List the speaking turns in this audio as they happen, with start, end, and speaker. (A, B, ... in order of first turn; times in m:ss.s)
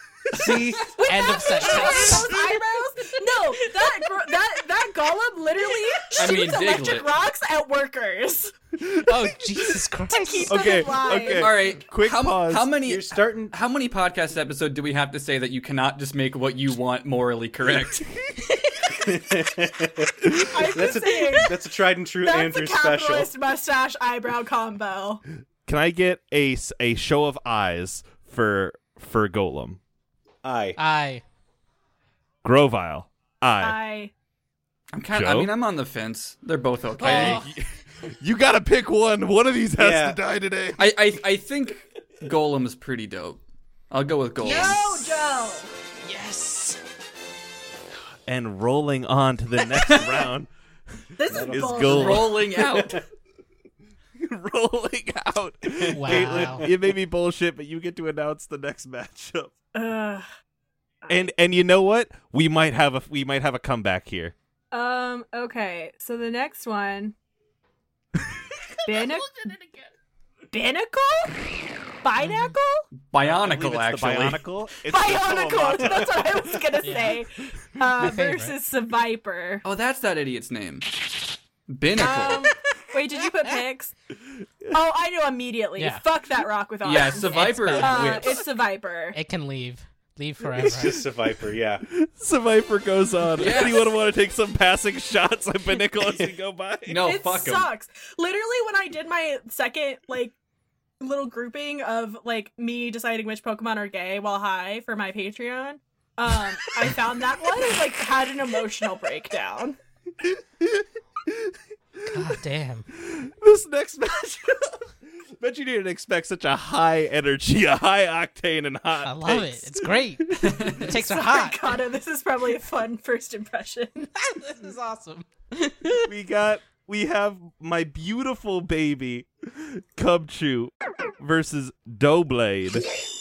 0:00.3-0:01.0 A
0:00.4-0:00.7 B
0:00.5-0:08.6 C
0:01.0-0:02.3 D
0:06.2-0:07.1 B
0:09.1-0:10.8 D
0:10.1-0:11.5 C
0:10.5-0:12.7 E
0:11.4-0:18.1 B
0:12.8-0:13.5 A
0:18.9-0:23.3 A
0:20.3-0:21.6 C
0:22.2-0:25.2 C
0:25.7-0:29.8 E
0:30.4-0:30.8 A
0:30.8-0:31.2 D
0:32.4-0:33.8 E
0:33.6-0:34.1 C
0:34.9-0:37.4 B
0:35.1-0:35.5 E
0:37.0-0:37.5 D
0:37.0-0:40.9 E
0:39.8-0:40.2 A
0:40.8-0:44.8 B
0:44.4-0:45.7 C
0:44.4-0:45.1 D
0:46.0-0:46.8 D
0:48.3-0:50.5 E
0:49.8-0:50.2 B
0:51.2-0:52.3 C
0:51.3-0:53.0 A
0:51.3-0:52.4 E
0:51.9-0:53.0 B
0:54.2-0:59.5 E
0:55.9-0:56.8 A
0:55.9-0:56.7 D
0:59.7-1:00.2 C
1:01.0-1:01.3 C
1:01.1-1:04.3 E
1:04.7-1:07.2 C
1:08.9-1:09.4 C
1:10.5-1:11.5 C
1:12.0-1:12.9 C
1:13.0-1:14.5 B
1:13.4-1:16.5 E
1:14.8-1:19.6 C
1:16.8-1:17.2 D
1:18.0-1:18.6 D
1:19.6-1:21.0 B
1:21.7-1:22.5 B
1:22.0-1:23.9 C
1:24.7-1:29.2 C
1:25.8-1:26.0 D
1:26.8-1:28.4 B
1:27.1-1:28.1 D
1:29.1-1:31.1 D
1:30.5-1:31.8 A
1:31.9-1:37.0 E
1:33.4-1:33.9 B
1:36.9-1:37.7 B
1:37.0-1:40.4 C
1:41.0-1:49.8 C
1:50.2-1:51.5 E
1:52.1-1:52.9 D
1:52.9-2:00.7 E
1:59.0-2:01.7 D
2:00.4-2:00.9 B
2:00.8-2:04.1 C
2:04.2-2:06.1 D
2:06.0-2:12.9 E